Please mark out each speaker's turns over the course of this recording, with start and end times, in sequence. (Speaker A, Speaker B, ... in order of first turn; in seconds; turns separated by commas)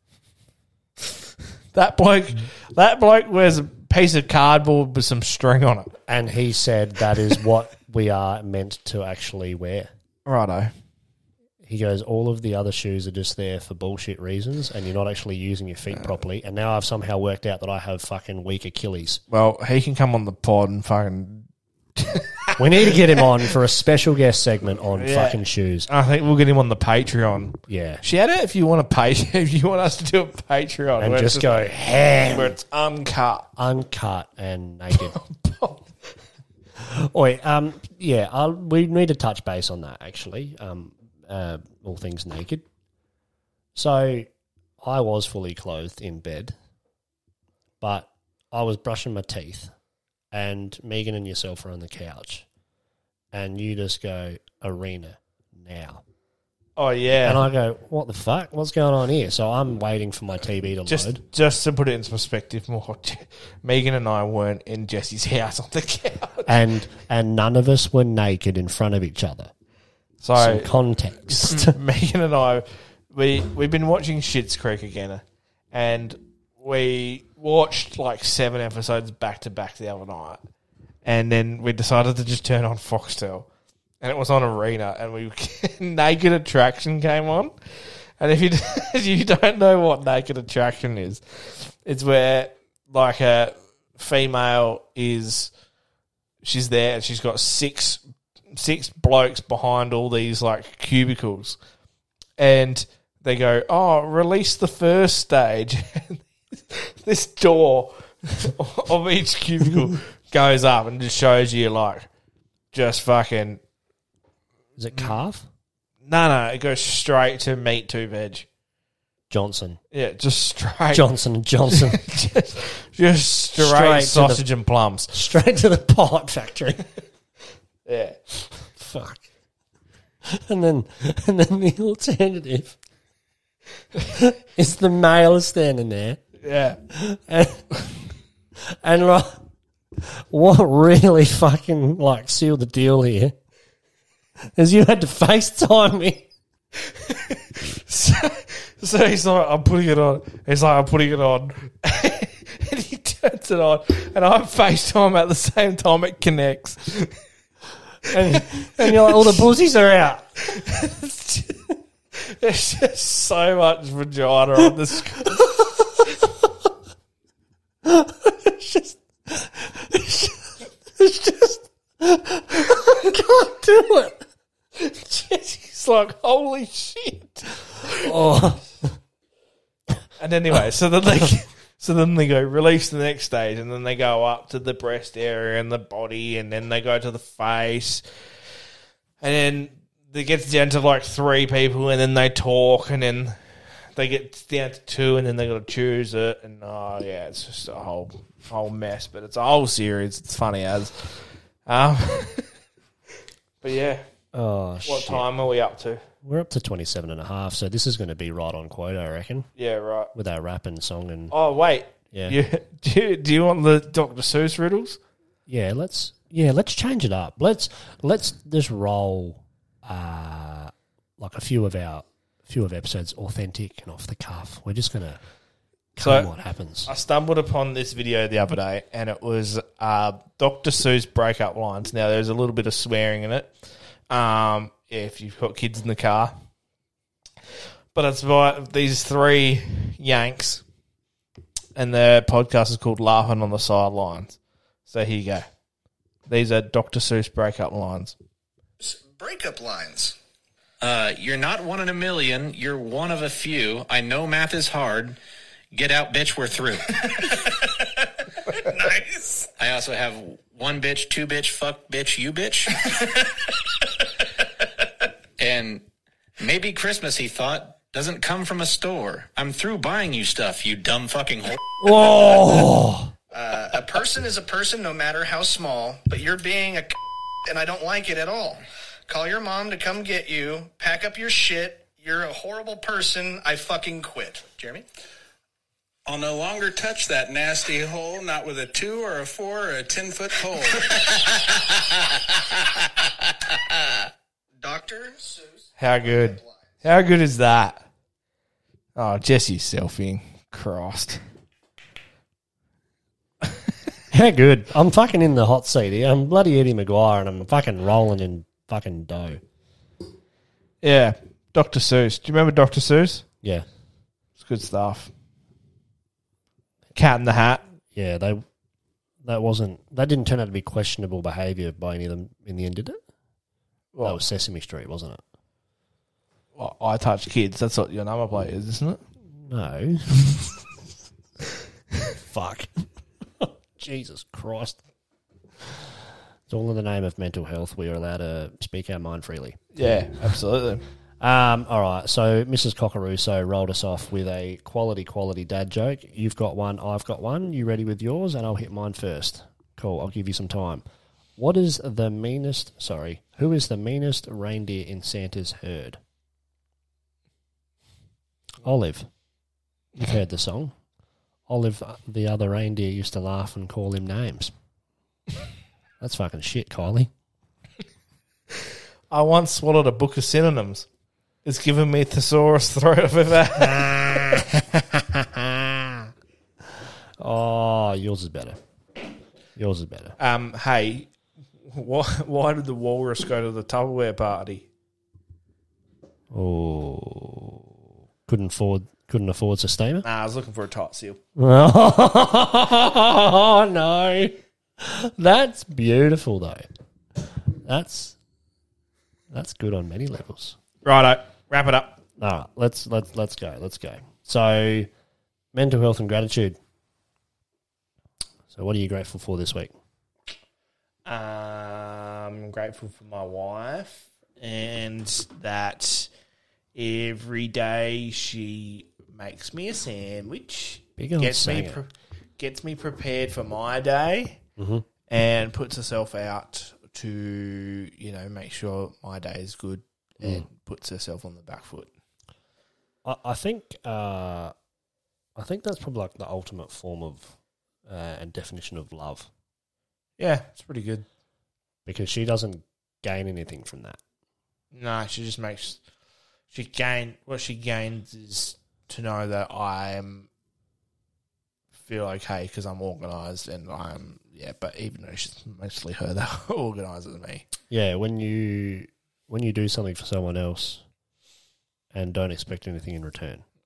Speaker A: 1.7-5.9, Speaker B: 6.1-9.9, Speaker A: 10.3-10.7, Speaker B: 11.6-19.2, Speaker A: 19.3-23.2, Speaker B: 22.6-25.9, Speaker A: 25.0-31.6, Speaker B: 27.7-28.0, Speaker B: 31.0-32.6, Speaker A: 32.3-33.5, Speaker B: 33.6-35.2, Speaker A: 34.9-35.9, Speaker B: 36.8-42.6, Speaker B: 43.8-44.3, Speaker B: 44.8-46.6, Speaker B: 47.8-49.7, Speaker B: 50.3-52.5, Speaker B: 53.3-56.0, Speaker A: 56.8-57.5, Speaker B: 57.2-61.2, Speaker A: 60.9-66.5, Speaker B: 66.5-69.5, Speaker A: 70.2-70.7, Speaker B: 70.4-71.8, Speaker A: 71.3-80.4, Speaker A: 81.0-83.5, Speaker A: 84.0-87.5, Speaker A: 88.2-95.5, Speaker A: 96.4-98.0, Speaker A: 98.5-101.6, Speaker A: 102.4-112.1, Speaker A: 112.7-113.6, Speaker B: 114.8-115.5, Speaker A: 116.0-118.5, Speaker B: 119.3-119.8, Speaker A: 119.9-121.1, Speaker B: 120.9-122.0, Speaker A: 121.7-125.1, Speaker B: 123.6-124.5, Speaker B: 125.1-126.8, Speaker A: 127.9-128.2, Speaker B: 128.8-129.2, Speaker B: 130.2-132.8, Speaker B: 134.1-136.2, Speaker A: 136.4-136.8, Speaker B: 136.9-137.8, Speaker B: 138.7-139.4, Speaker B: 140.0-143.3, Speaker B: 144.5-146.3, Speaker A: 147.0-157.1, Speaker B: 158.1-160.3, Speaker A: 158.2-159.4, Speaker A: 160.5-161.6, Speaker A: 162.2-165.6, Speaker B: 167.9-170.3, Speaker B: 171.0-171.5, Speaker B: 172.0-174.2, Speaker A: 174.8-178.1, Speaker B: 178.0-178.9, Speaker A: 180.2-188.0, Speaker A: 189.2-193.4, Speaker A: 193.9-202.5, Speaker A: 203.6-204.0, Speaker B: 204.3-205.3, Speaker A: 204.8-206.0, Speaker B: 206.2-209.5, Speaker A: 209.6-210.1, Speaker B: 210.1-211.3, Speaker A: 211.3-215.0, Speaker B: 212.1-212.4, Speaker B: 215.5-225.2, Speaker B: 226.0-226.9, Speaker A: 226.0-226.3, Speaker A: 226.9-233.5, Speaker A: 234.1-236.3, Speaker A: 237.9-240.6, Speaker A: 241.8-244.4, Speaker A: 244.9-245.5, Speaker A: 246.3-248.2, Speaker C: 248.8-250.2, Speaker D: 250.8-255.2, Speaker D: 255.7-256.9, Speaker C: 258.6-259.5, Speaker D: 259.6-262.8, Speaker D: 265.4-265.9, Speaker D: 266.4-271.6, Speaker B: 271.8-273.1, Speaker C: 273.3-284.9, Speaker E: 286.1-291.4, Speaker C: 294.6-295.4, Speaker A: 295.8-297.9, Speaker A: 299.0-301.2, Speaker B: 304.1-309.4, Speaker A: 310.8-313.2, Speaker A: 314.4-315.1, Speaker A: 316.9-317.6, Speaker B: 317.9-318.4, Speaker B: 319.2-323.0, Speaker A: 323.9-324.2, Speaker B: 324.0-325.2, Speaker A: 326.6-329.0, Speaker B: 329.3-330.6, Speaker B: 332.2-332.9, Speaker B: 333.4-334.8, Speaker B: 336.5-339.9, Speaker A: 339.7-340.8, Speaker B: 341.2-350.8, Speaker B: 351.4-356.0, Speaker B: 358.6-359.1, Speaker B: 360.0-360.7, Speaker B: 361.5-364.5, Speaker B: 366.0-367.1, Speaker A: 369.1-370.9, Speaker A: 371.4-373.8, Speaker B: 373.5-376.1, Speaker B: 377.2-378.6, Speaker B: 379.6-380.2, Speaker A: 380.2-381.1, Speaker A: 381.7-384.7, Speaker B: 386.3-390.1, Speaker A: 390.0-391.2, Speaker B: 391.4-396.6, Speaker B: 397.6-398.2, Speaker B: 399.3-400.6, Speaker A: 400.9-402.0, Speaker B: 402.2-404.9, Speaker B: 405.5-406.6, Speaker B: 408.5-409.7, Speaker A: 411.1-416.1, Speaker A: 416.8-424.4, Speaker B: 421.0-421.8, Speaker B: 424.6-424.9, Speaker A: 425.1-431.9, Speaker B: 433.1-434.5, Speaker B: 435.4-437.4, Speaker B: 437.9-439.3, Speaker A: 440.2-441.1, Speaker B: 441.9-444.0, Speaker A: 444.7-445.8, Speaker A: 446.5-450.3, Speaker A: 451.8-457.4, Speaker B: 457.7-460.8, Speaker B: 461.9-463.4